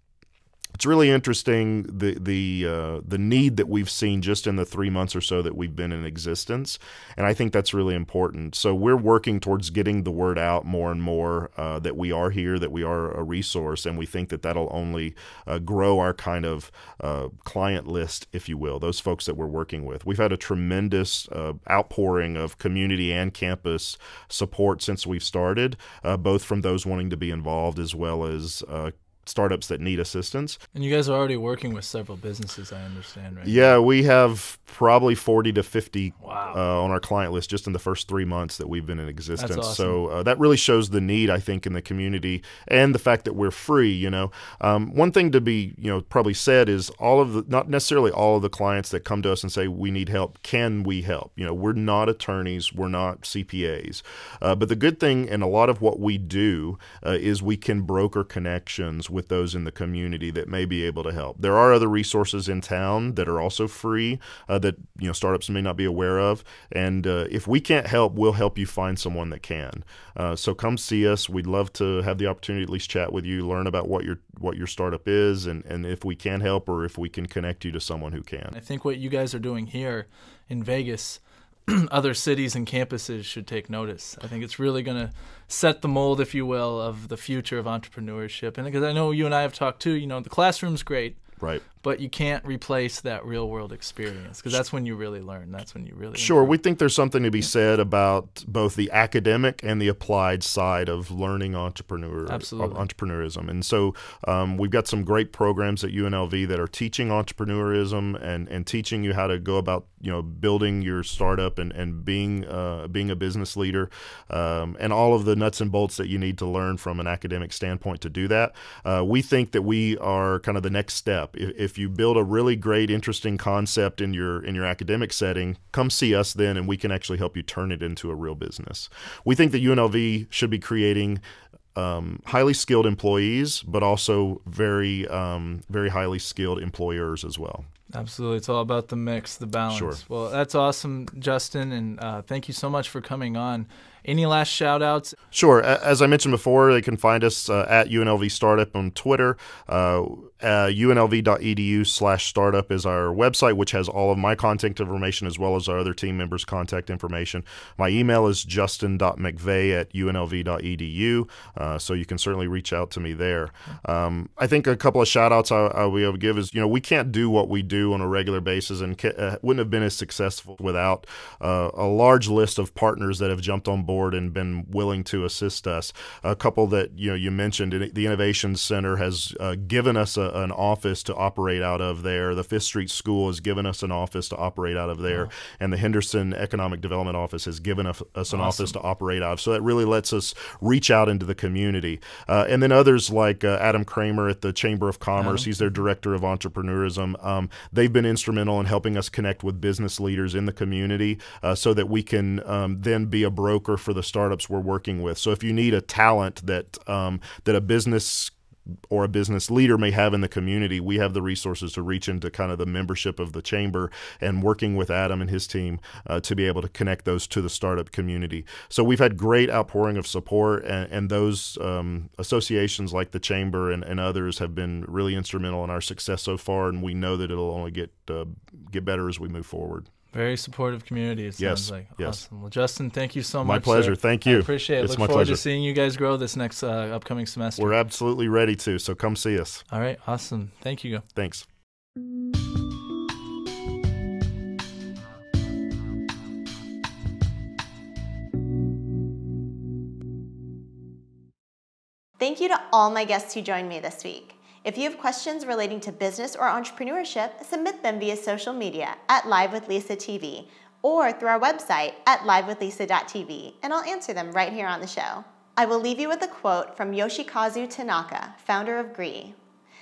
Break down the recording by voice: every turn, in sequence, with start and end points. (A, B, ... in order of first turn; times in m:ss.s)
0:00.8-0:30.6 A
0:30.7-0:33.8 B
0:33.4-1:18.5 A
0:36.2-0:36.6 B
0:39.3-0:40.0 B
1:18.5-1:36.6 B
1:31.4-1:31.6 A
1:36.2-2:11.2 A
1:42.2-1:42.8 B
2:11.7-2:17.6 A
2:17.9-2:25.1 B
2:19.7-2:20.0 A
2:25.3-3:28.3 A
3:08.3-3:08.8 B
3:15.2-3:15.8 B
3:28.9-3:49.9 A
3:50.1-3:57.8 B
3:51.4-3:52.2 A
3:53.4-3:55.4 A
3:57.6-3:59.6 A
3:59.7-4:01.1 B
4:01.1-4:01.4 A
4:12.2-4:29.4 C